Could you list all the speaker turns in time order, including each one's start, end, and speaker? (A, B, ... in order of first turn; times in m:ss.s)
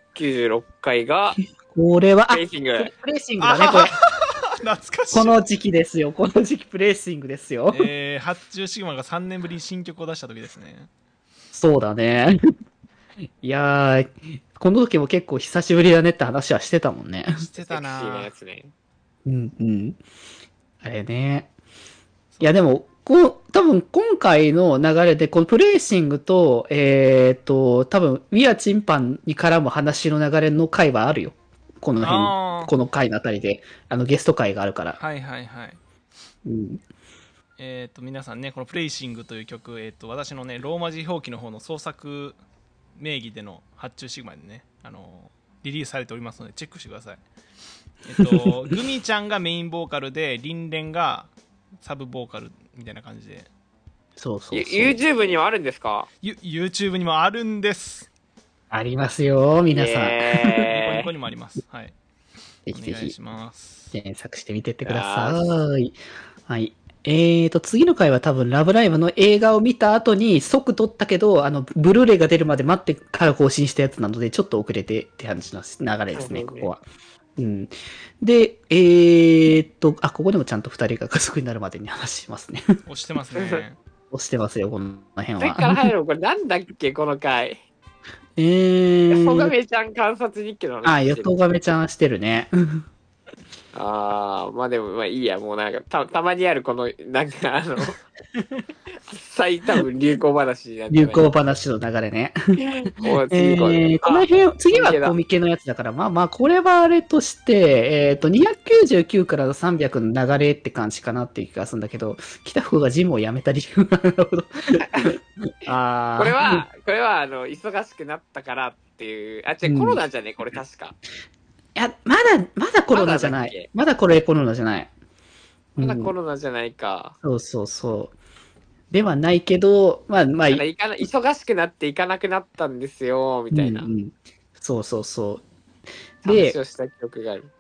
0:00.2-0:01.4 A
0:01.4-0:03.9 B
0:02.3-0:02.9 A
0:03.4-0:05.4 C
0:05.1-0:07.9 B
0:07.7-0:10.9 C
0:11.5-0:12.4 B
0:13.4-0:17.4 B
0:17.4-0:18.3 C
0:17.7-0:18.7 A
0:19.3-0:20.0 B
0:20.8-0:21.5 B
0:22.3-0:22.6 C
0:22.4-0:35.0 B
0:32.0-0:32.7 C
0:35.0-0:35.8 C
0:36.5-0:36.8 B
0:37.6-0:42.4 C
0:43.0-0:47.2 C
0:48.0-0:53.5 C
0:54.2-0:55.0 B
0:54.5-0:56.1 A
0:56.2-0:58.1 C
0:58.7-1:00.7 B
0:59.7-1:01.1 A
1:00.7-1:02.0 C
1:02.7-1:03.2 B
1:02.7-1:03.9 C
1:03.9-1:06.0 B
1:04.8-1:05.4 A
1:06.5-1:16.8 B
1:16.1-1:16.7 A
1:17.4-1:22.6 B
1:22.9-1:23.8 C
1:23.4-1:23.6 A
1:24.1-1:25.9 B
1:25.4-1:27.6 A
1:28.4-1:29.5 B
1:29.1-1:31.3 A
1:30.8-1:32.8 B
1:33.7-1:38.0 A
1:38.4-1:38.6 B
1:39.1-1:41.3 A
1:40.9-1:42.4 B
1:42.6-1:45.2 A
1:43.3-1:56.6 B
1:54.8-1:55.1 A
1:56.2-2:01.0 A
1:59.7-2:00.0 B
2:01.8-2:04.9 B
2:02.9-2:03.7 A
2:05.8-2:06.1 B
2:05.8-2:07.2 A
2:07.2-2:08.2 B
2:08.9-2:10.6 B
2:10.5-2:13.9 A
2:13.5-2:15.4 B
2:16.2-2:16.6 B
2:16.2-2:17.5 A